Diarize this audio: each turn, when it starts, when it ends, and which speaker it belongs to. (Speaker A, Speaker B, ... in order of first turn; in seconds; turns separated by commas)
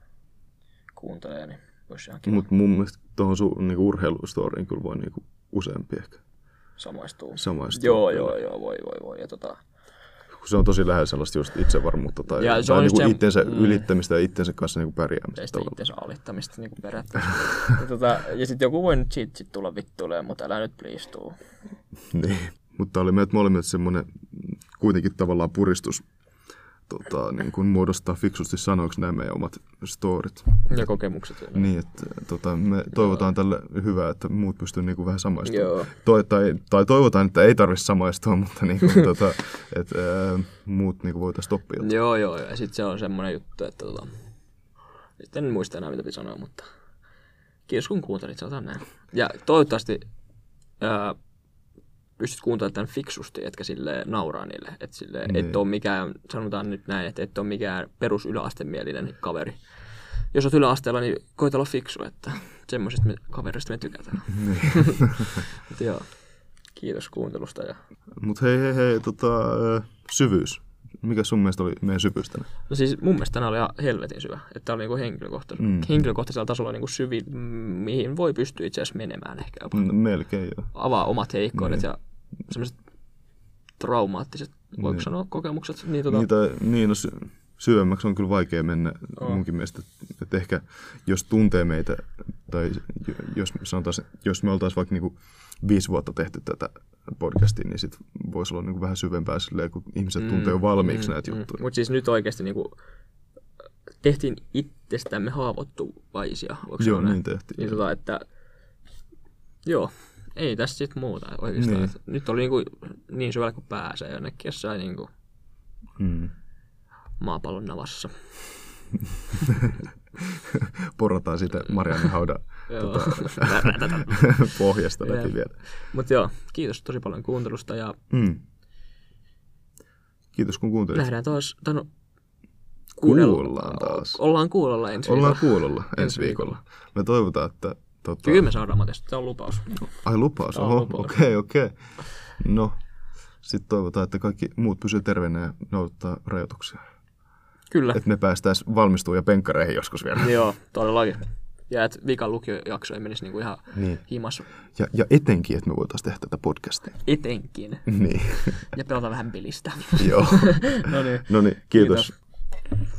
Speaker A: 0.9-2.5, Speaker B: 2.3-6.2, Speaker A: 6.8-9.6, Speaker B: 7.4-8.4, Speaker B: 10.3-15.8, Speaker A: 12.3-13.9, Speaker A: 15.4-21.4, Speaker B: 22.1-26.1, Speaker B: 26.9-30.9, Speaker A: 30.7-31.7, Speaker B: 31.5-41.9, Speaker A: 35.5-35.9, Speaker A: 41.8-44.2, Speaker A: 45.2-46.7, Speaker A: 47.7-50.1, Speaker A: 50.8-51.2, Speaker A: 52.2-67.8, Speaker B: 55.3-55.6, Speaker B: 64.4-65.5, Speaker B: 68.2-72.5, Speaker A: 72.7-79.9, Speaker B: 75.6-75.9, Speaker B: 79.7-80.7, Speaker A: 80.7-82.8, Speaker B: 81.5-81.8, Speaker A: 83.8-86.3, Speaker B: 84.8-85.1, Speaker B: 86.1-101.6, Speaker A: 100.2-102.8, Speaker A: 104.0-108.2, Speaker B: 106.8-107.8, Speaker A: 109.7-115.1, Speaker B: 111.6-111.9, Speaker B: 116.0-116.3, Speaker A: 117.2-118.5, Speaker B: 120.5-125.6, Speaker A: 122.7-128.0, Speaker B: 128.1-128.4, Speaker B: 130.3-131.1, Speaker A: 130.9-131.9, Speaker B: 133.0-134.2, Speaker A: 133.0-136.5, Speaker B: 135.0-138.5, Speaker A: 138.2-140.0, Speaker B: 139.8-142.8, Speaker A: 140.5-141.2, Speaker B: 143.4-146.8, Speaker A: 147.7-148.0, Speaker B: 147.9-150.4, Speaker A: 150.2-154.5, Speaker B: 153.7-154.0, Speaker B: 154.8-157.0, Speaker A: 157.0-158.0, Speaker B: 157.9-158.6, Speaker A: 158.5-162.2, Speaker B: 160.0-162.1